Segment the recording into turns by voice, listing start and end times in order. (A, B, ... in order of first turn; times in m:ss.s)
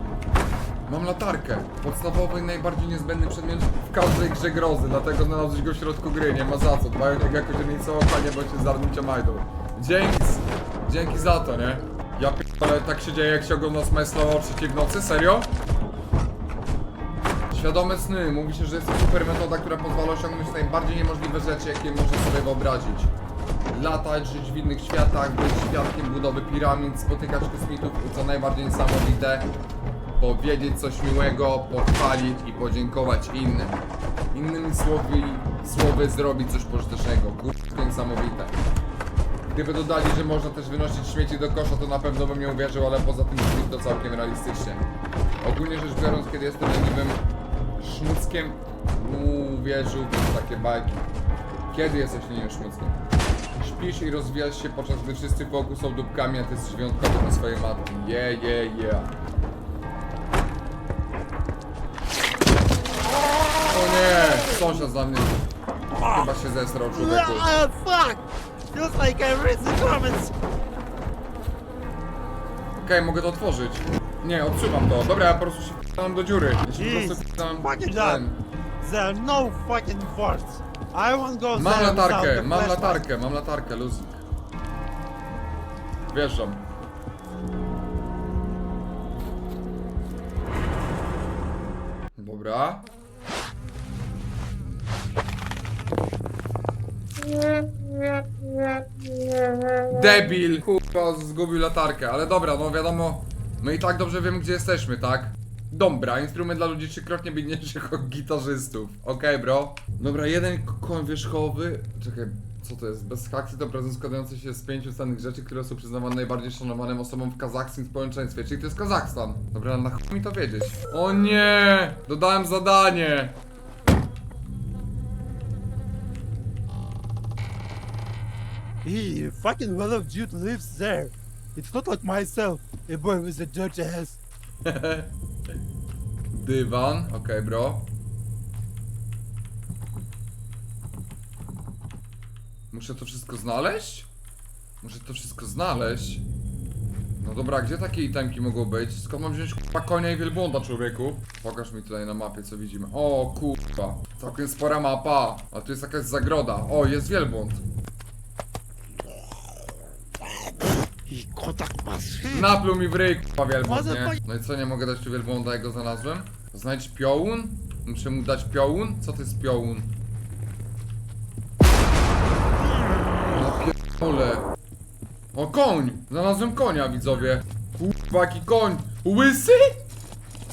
0:00.9-0:15.5 A
0:17.5-0:23.1 A
0:23.7-0:29.5 A
0:30.2-0:33.8 A
0:34.3-0:38.6 A
0:39.5-0:44.8 A
0:45.4-0:47.2 A
0:47.8-0:51.0 A
0:51.7-0:53.0 A
0:53.5-0:59.1 A
1:03.6-1:05.4 A
1:05.9-1:06.3 B
1:06.0-1:07.5 A
1:06.9-1:10.3 B
1:12.8-1:18.4 A
1:16.7-1:18.3 B
1:18.8-1:23.0 B
1:21.5-1:24.2 A
1:26.1-1:26.7 A
1:32.2-1:32.9 A
1:39.8-2:03.4 A
2:08.8-2:14.2 B
2:14.6-2:15.1 A
2:16.3-2:17.9 A
2:22.7-2:24.1 A
2:24.8-2:26.2 A
2:27.2-2:37.6 A
2:41.1-2:42.6 B
2:42.3-2:49.9 A
2:43.6-2:44.2 B
2:53.3-2:54.5 A
2:55.3-2:59.8 A